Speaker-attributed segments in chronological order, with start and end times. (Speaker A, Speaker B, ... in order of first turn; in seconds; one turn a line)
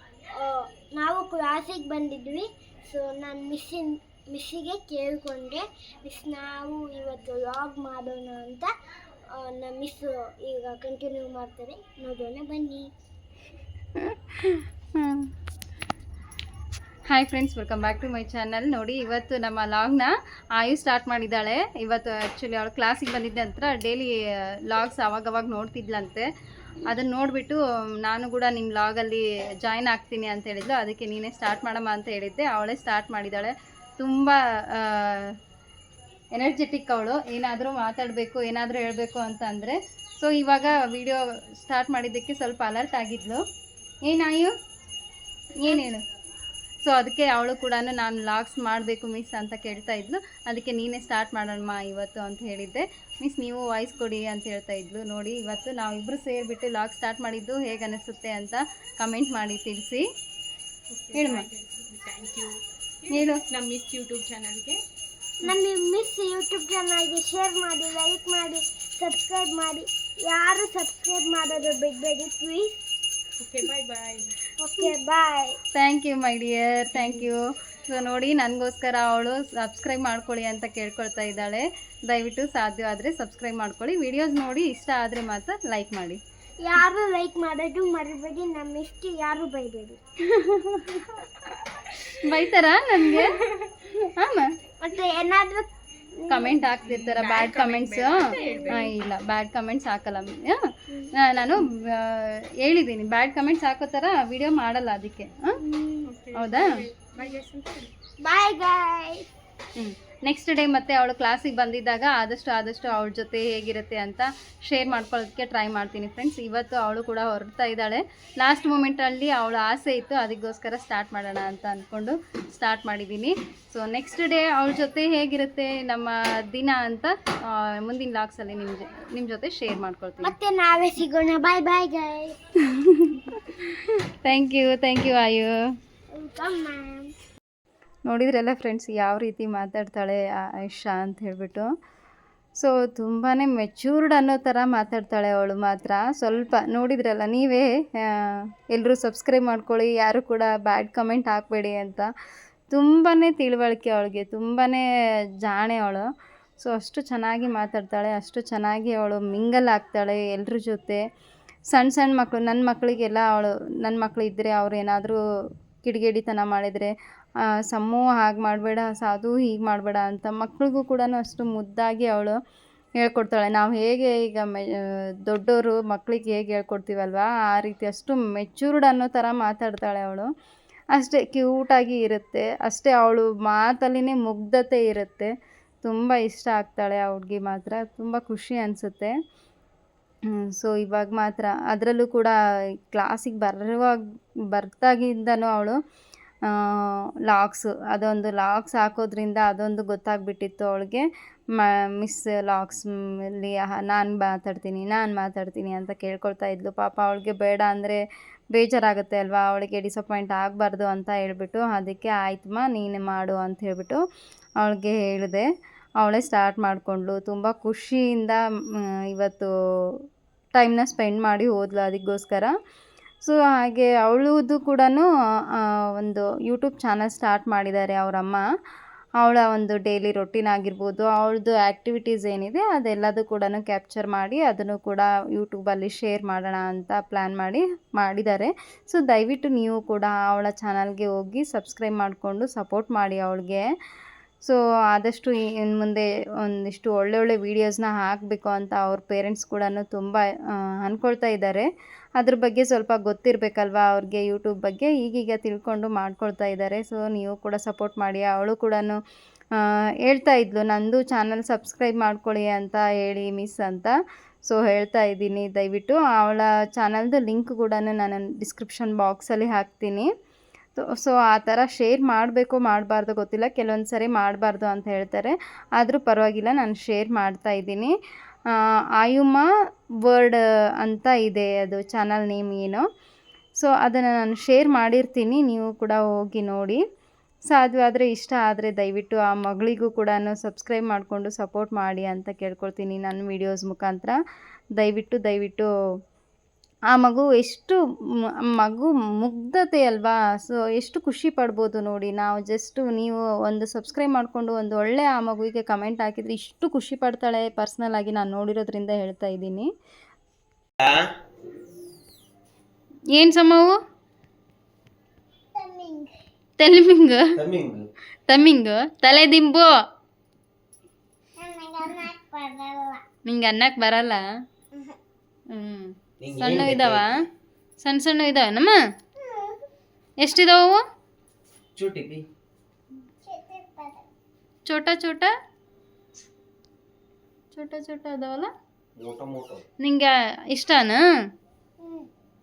Speaker A: 0.3-8.7
Speaker A: 9.3-12.9
Speaker B: 14.0-15.3
Speaker B: 17.1-24.1
Speaker B: 24.6-26.2
Speaker B: 26.9-35.3
Speaker B: 36.3-43.4
Speaker B: 44.0-44.5
Speaker B: 45.6-46.0
Speaker B: 46.8-60.0
Speaker C: 60.9-64.8
Speaker B: 61.1-61.5
Speaker B: 63.1-63.4
Speaker A: 65.4-72.8
Speaker C: 73.4-74.3
Speaker A: 74.6-75.6
Speaker B: 75.7-86.2
Speaker A: 86.6-90.0
Speaker B: 90.3-91.3
Speaker B: 92.0-93.4
Speaker B: 94.2-94.5
Speaker A: 94.8-95.7
Speaker A: 96.2-96.7
Speaker B: 96.3-100.6
Speaker C: 96.9-99.0
Speaker A: 98.4-98.7
Speaker B: 101.1-105.6
Speaker A: 105.6-106.1
Speaker C: 106.0-107.9
Speaker B: 106.3-106.7
Speaker A: 108.2-109.3
Speaker B: 109.8-130.3
Speaker A: 130.2-132.4
Speaker B: 132.7-135.6
Speaker A: 136.1-137.1
Speaker B: 138.1-141.7
Speaker B: 142.6-152.1
Speaker B: 152.7-154.8
Speaker B: 155.4-156.1
Speaker B: 156.6-161.0
Speaker B: 161.7-165.2
Speaker B: 165.8-166.9
Speaker B: 167.5-172.4
Speaker B: 173.0-180.3
Speaker B: 180.9-185.3
Speaker B: 185.8-189.1
Speaker B: 190.4-192.3
Speaker B: 192.9-194.0
Speaker B: 194.5-195.8
Speaker B: 196.5-208.0
Speaker B: 208.5-214.0
Speaker B: 214.6-215.5
Speaker B: 216.0-218.4
Speaker B: 219.1-219.5
Speaker B: 220.6-222.5
Speaker B: 223.2-228.4
Speaker B: 229.2-243.7
Speaker B: 244.4-259.0
Speaker B: 259.6-263.9
Speaker B: 264.4-270.1
Speaker B: 270.8-277.9
Speaker B: 279.0-279.4
Speaker B: 280.0-282.8
Speaker B: 283.6-286.8
Speaker B: 287.5-294.2
Speaker B: 294.8-295.7
Speaker B: 296.9-297.8
Speaker B: 298.5-309.7
Speaker B: 313.1-313.8
Speaker A: 315.6-316.1
Speaker B: 316.6-317.3
Speaker D: 317.4-317.9
Speaker B: 318.3-319.7
Speaker A: 321.4-323.0
Speaker B: 323.2-324.2
Speaker B: 325.5-327.1
Speaker D: 326.2-327.1
Speaker B: 327.8-328.7
Speaker A: 329.2-329.6
Speaker B: 330.2-330.8
Speaker D: 331.8-332.2
Speaker A: 333.2-334.0
Speaker B: 334.7-335.3
Speaker B: 337.5-338.5
Speaker D: 339.0-339.6
Speaker B: 339.8-341.0
Speaker A: 341.8-342.1